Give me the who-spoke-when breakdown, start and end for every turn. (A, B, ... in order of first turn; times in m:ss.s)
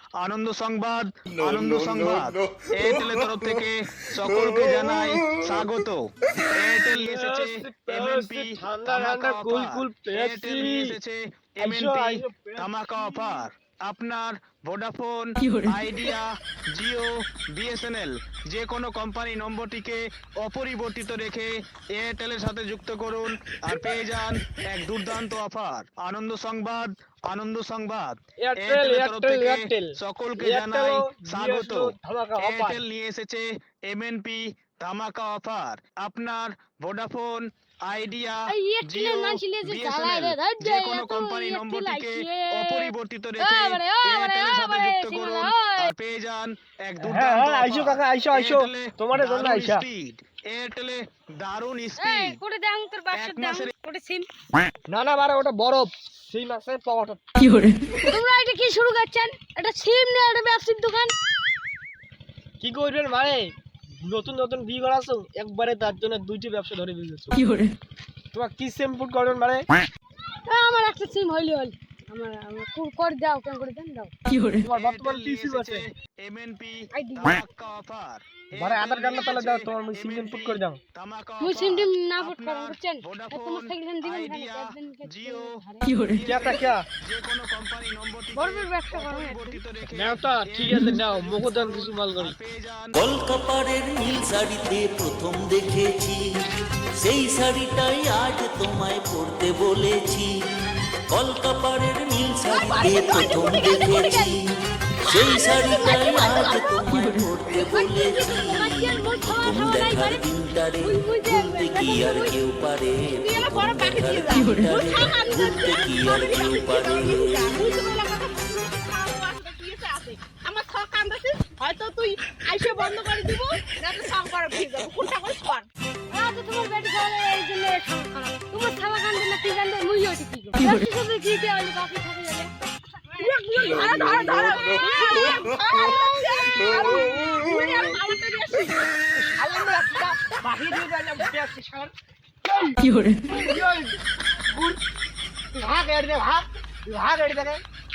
0:00.2-0:52.4 A
0:06.9-0:11.0 B
0:11.6-0:13.4 B
0:28.4-0:32.9 B
0:38.5-0:45.9 C
0:47.0-0:49.9 B
0:52.0-0:54.3 C
0:53.1-0:53.7 A
0:54.9-0:57.2 B
0:57.9-1:01.1 C
1:02.6-1:07.4 B
1:08.3-1:09.7 B
1:10.5-1:14.1 C
1:14.6-1:15.8 B
1:14.7-1:33.0 A
1:16.9-1:17.4 C
1:18.6-1:20.8 B
1:21.4-1:26.0 C
1:26.3-1:26.9 B
1:28.4-1:29.6 C
1:29.8-1:32.4 B
1:32.9-1:36.2 D
1:37.0-1:40.3 D
1:41.1-1:44.4 D
1:42.5-1:44.4 E
1:45.0-1:57.8 D
1:45.1-1:46.9 E
1:47.6-1:50.2 C
1:50.8-1:52.4 C
1:53.2-2:05.7 E
2:06.1-2:12.5 C
2:13.1-2:18.9 E
2:19.4-2:21.9 B
2:22.5-2:23.9 B
2:25.6-2:27.6 B